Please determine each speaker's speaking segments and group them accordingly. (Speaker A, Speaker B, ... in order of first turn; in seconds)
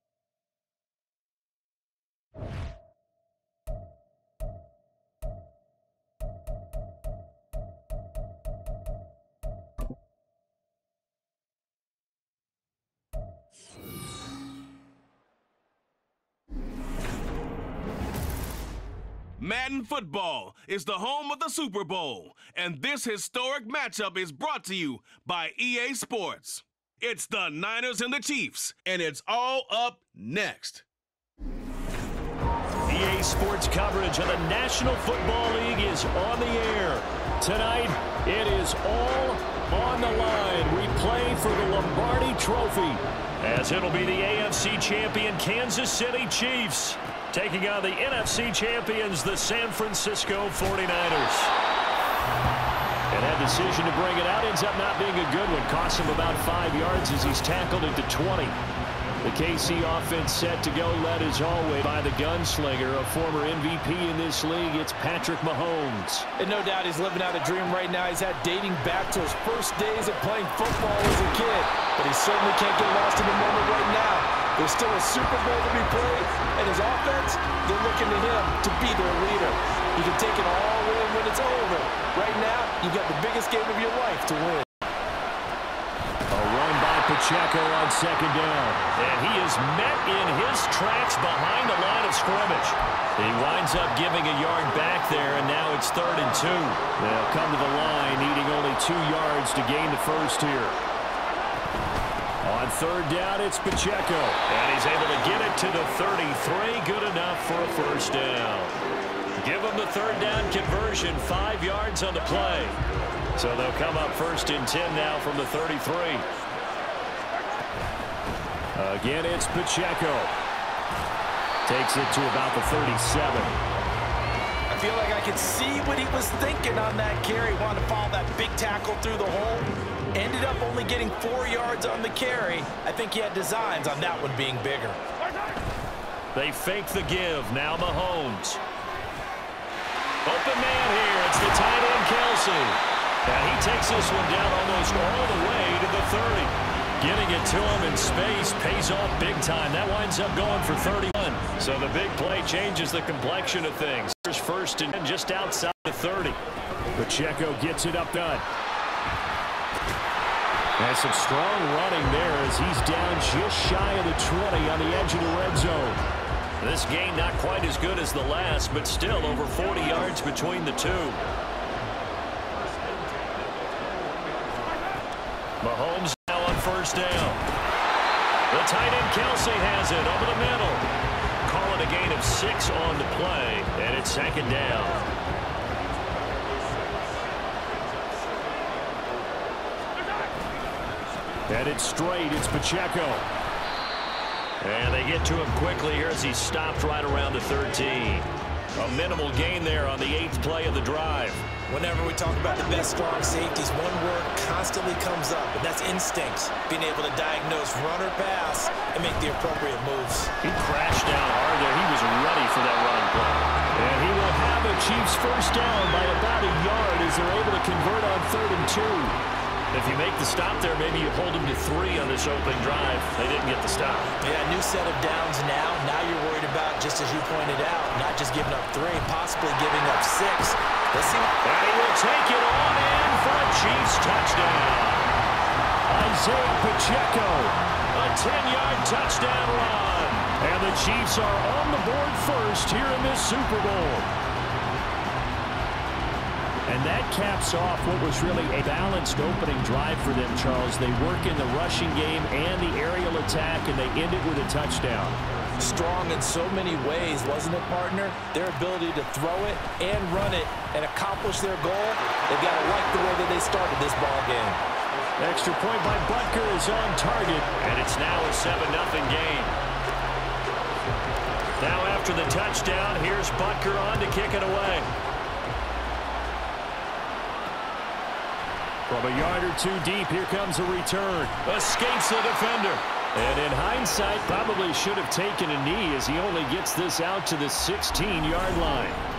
Speaker A: 19.4-30.9
Speaker B: 32.9-51.5, 53.1-58.6, 59.2-66.3, 86.3-100.8, 102.4-108.8, 109.4-112.8, 113.4-116.3, 118.8-120.3, 121.7-123.6, 136.3-138.6, 140.2-156.4, 157.0-158.4, 160.8-166.0, 166.6-171.2, 175.6-177.4, 178.5-180.9, 181.4-185.1, 191.5-193.3, 194.6-201.4, 210.4-219.2, 219.7-224.2, 231.4-235.2, 235.9-244.1, 246.7-255.2, 265.2-269.6, 271.6-274.9, 278.9-289.0
Speaker C: 66.4-84.7, 124.7-135.0, 201.7-210.3, 224.2-231.3, 255.6-264.6